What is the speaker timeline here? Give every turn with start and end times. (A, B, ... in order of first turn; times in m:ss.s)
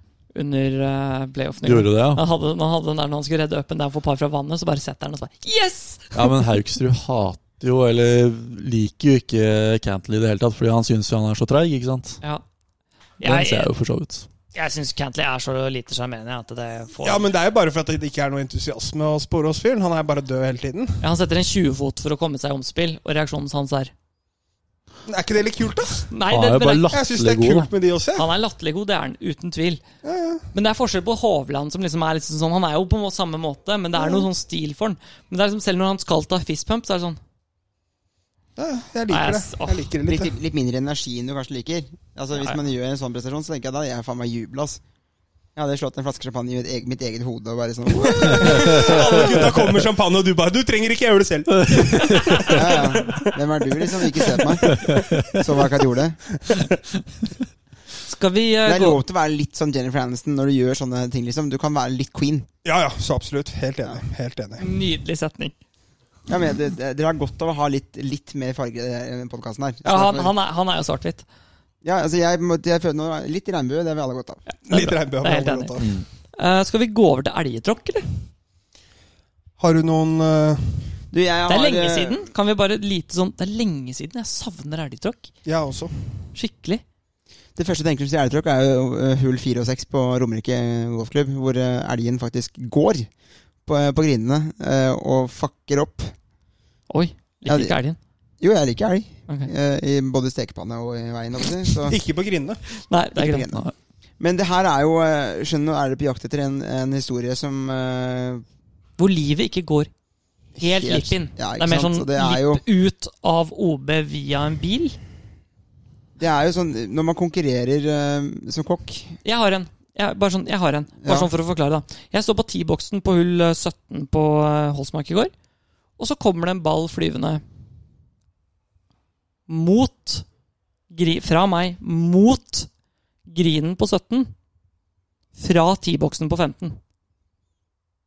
0:00.3-0:06.5 A
0:01.6-0:02.2 B
0:06.1-0:12.2 B
0:13.2-0:13.7 A
0:13.2-0:14.3 B
0:14.5-0:17.3 A
0:17.0-0:21.0 C
0:21.0-0:23.9 A
0:25.1-0:26.1 C
0:26.1-0:26.9 A
0:26.3-0:27.7 B
0:26.9-0:28.3 C
0:28.2-0:29.8 A
0:30.0-0:30.5 C
0:30.5-0:37.2 A
0:34.0-0:34.3 C
0:38.6-0:40.3 C
0:39.1-0:39.9 A
0:40.1-0:44.8 D
0:45.6-0:49.2 D
0:48.1-0:53.3 C
0:48.5-0:49.2 B
0:51.6-0:52.6 B
0:52.5-0:56.2 D
0:54.2-0:54.4 C
0:54.6-0:55.4 B
0:58.1-0:59.0 A
0:58.6-1:02.5 D
1:02.6-1:04.7 C
1:04.6-1:05.6 A
1:06.3-1:10.3 D
1:09.8-1:11.2 A
1:11.8-1:14.4 D
1:14.5-1:18.1 A
1:14.7-1:15.9 C
1:15.8-1:16.1 B
1:19.6-1:20.9 C
1:21.1-1:22.2 D
1:21.5-1:25.3 A
1:25.4-1:25.9 C
1:26.3-1:26.8 A
1:27.6-1:33.1 D
1:33.7-1:36.1 D
1:36.9-1:38.0 A
1:37.5-1:37.8 D
1:38.4-1:42.0 D
1:41.8-1:42.6 C
1:42.8-1:43.5 A
1:43.1-1:43.7 D
1:44.2-1:48.4 D
1:49.0-1:49.9 A
1:50.6-1:52.6 D
1:50.6-1:55.0 A
1:56.2-1:59.2 D
1:59.2-2:05.3 A
2:01.0-2:01.3 D
2:06.0-2:07.4 A
2:09.5-2:10.3 A
2:10.9-2:12.7 A
2:13.3-2:14.3 A
2:15.4-2:16.8 A